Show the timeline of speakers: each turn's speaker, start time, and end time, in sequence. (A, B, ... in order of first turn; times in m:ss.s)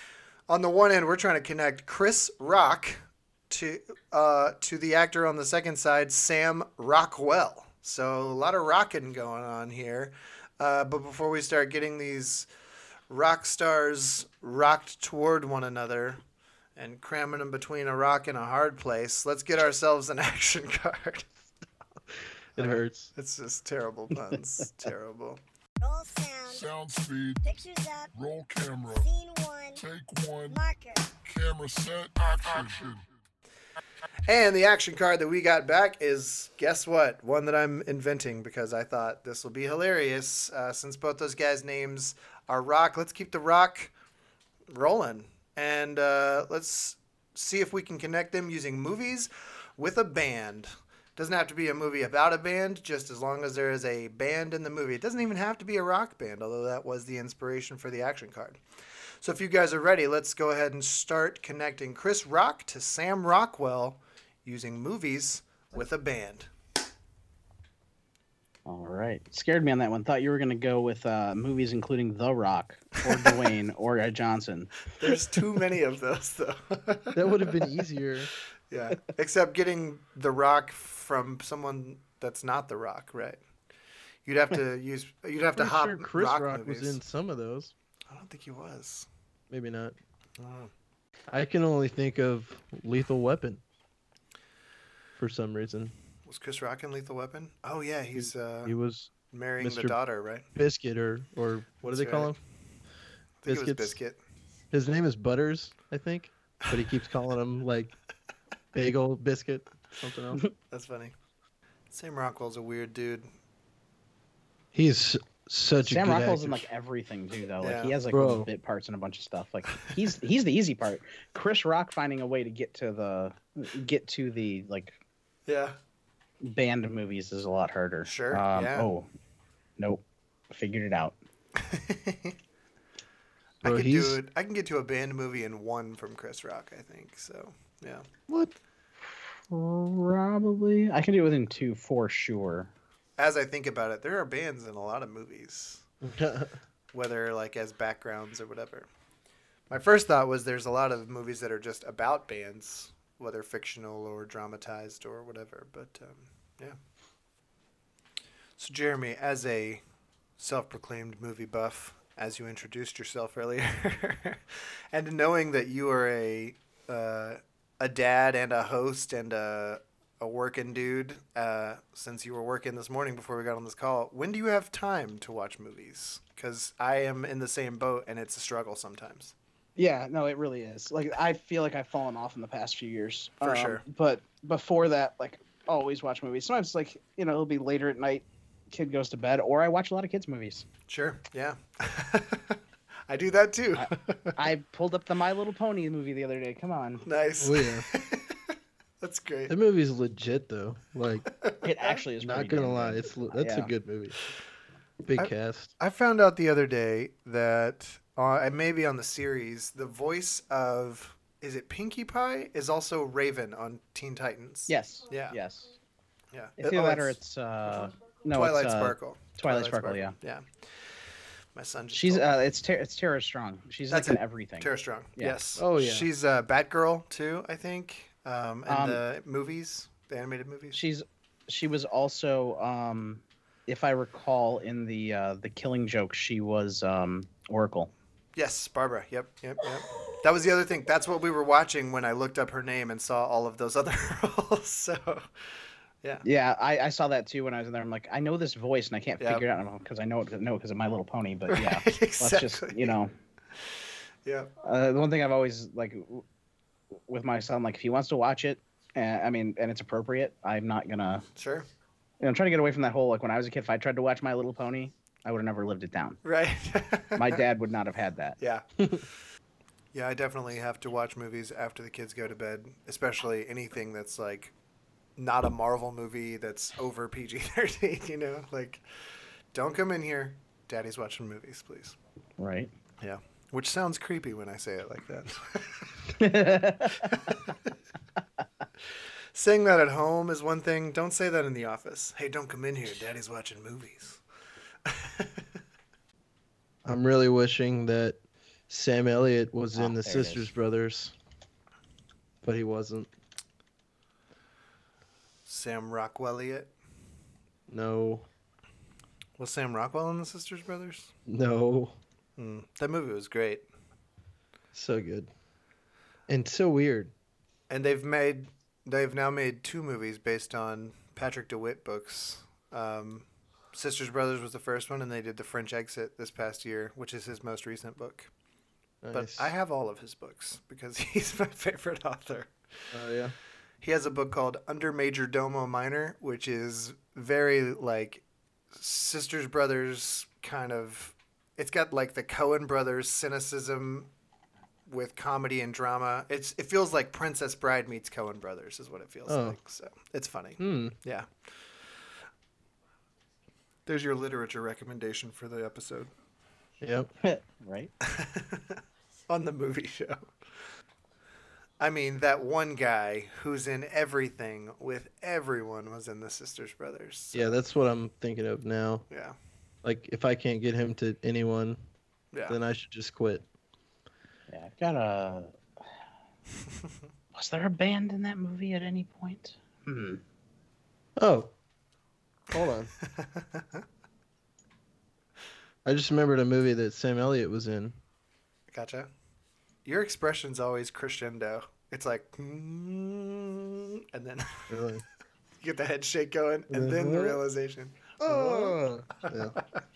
0:00.5-0:12.5 A
0:13.1-0:16.2 A
0:16.8-0:21.3 A
0:22.6-0:25.4 A
0:22.6-0:23.1 B
0:25.8-0:26.7 C
0:26.5-0:27.4 D
0:27.4-0:28.1 C
0:28.2-0:29.1 D
0:28.9-0:29.8 C
0:29.8-0:30.6 D
0:30.5-0:31.1 C
0:31.2-0:33.1 D
0:34.3-0:43.9 A
0:44.7-0:58.6 A
0:59.2-1:06.5 A
1:08.7-1:14.8 E
1:13.1-1:13.4 A
1:15.0-1:17.4 A
1:17.1-1:18.3 B
1:18.7-1:23.4 A
1:24.3-1:27.0 A
1:25.6-1:27.7 B
1:28.1-1:29.1 A
1:29.5-1:30.0 B
1:30.4-1:30.7 A
1:31.3-1:33.6 B
1:35.2-1:35.9 B
1:36.3-1:38.7 A
1:38.2-1:40.0 B
1:39.3-1:40.5 A
1:40.5-1:42.4 B
1:41.8-1:42.3 A
1:43.4-1:44.2 A
1:43.5-1:44.0 B
1:44.7-1:47.9 B
1:48.7-1:50.4 B
1:50.7-1:51.1 A
1:51.9-1:53.3 A
1:54.7-1:56.7 B
1:55.8-2:05.0 E
1:57.6-1:58.0 A
1:58.1-1:58.5 B
2:05.5-2:05.8 A
2:06.4-2:09.1 E
2:08.0-2:08.9 A
2:09.8-2:11.2 E
2:11.6-2:12.4 A
2:13.6-2:18.1 A
2:13.6-2:14.2 B
2:18.3-2:18.6 B
2:19.5-2:22.7 E
2:23.2-2:25.8 A
2:26.0-2:26.6 B
2:26.9-2:28.9 A
2:29.7-2:36.8 A
2:38.6-2:39.8 A
2:40.4-2:59.3 A
2:59.8-3:10.7 E
3:03.4-3:03.8 A
3:10.9-3:14.4 A
3:13.8-3:17.1 E
3:17.0-3:19.5 A
3:17.4-3:17.9 B
3:19.5-3:21.3 B
3:21.6-3:23.7 E
3:22.2-3:24.2 B
3:25.0-3:25.7 B
3:25.2-3:35.4 A
3:34.7-3:35.7 E
3:36.3-3:37.2 A
3:36.6-3:40.2 E
3:38.3-3:40.9 A
3:41.6-3:42.3 A
3:41.9-3:45.4 E
3:43.9-3:50.8 A
3:45.6-3:46.1 B
3:48.7-3:49.0 E
3:50.7-3:57.9 E
3:58.4-4:05.3 A
4:06.2-4:13.1 E
4:11.5-4:13.0 A
4:14.2-4:14.5 A
4:14.6-4:16.2 E
4:17.1-4:21.2 E
4:21.4-4:21.7 A
4:22.2-4:26.2 E
4:26.2-4:27.4 A
4:27.2-4:28.4 E
4:28.4-4:28.6 A
4:29.9-4:34.5 A
4:35.2-4:38.8 A
4:39.5-4:42.0 A
4:42.4-4:42.7 E
4:43.0-4:46.2 A
4:46.2-4:47.1 E
4:47.0-4:47.4 A
4:49.3-4:54.2 A
4:54.9-4:55.4 A
4:56.8-5:01.2 B
4:59.7-5:00.5 E
5:02.4-5:03.1 B
5:05.5-5:06.7 A
5:07.7-5:08.3 B
5:09.4-5:11.1 A
5:11.3-5:12.0 B
5:12.4-5:13.7 A
5:14.7-5:15.3 B
5:16.3-5:17.1 B
5:17.7-5:28.3 A
5:29.0-5:29.5 B
5:29.1-5:32.5 A
5:32.9-5:33.4 B
5:33.8-5:44.1 A
5:44.9-5:51.3 A
5:49.3-5:49.6 B
5:50.6-5:51.0 B
5:53.9-5:56.1 A
5:56.8-5:57.1 B
5:57.2-5:57.9 E
5:58.0-6:00.2 A
6:01.8-6:07.5 A
6:07.3-6:09.1 B
6:09.1-6:09.4 A
6:09.8-6:11.8 B
6:12.5-6:13.4 B
6:14.5-6:15.6 E
6:17.3-6:20.2 E
6:21.2-6:21.5 B
6:22.5-6:22.9 B
6:23.0-6:23.8 A
6:25.8-6:28.0 B
6:28.7-6:29.1 A
6:29.8-6:34.7 A
6:34.7-6:35.0 B
6:35.6-6:39.6 A
6:36.7-6:37.4 B
6:38.2-6:39.6 B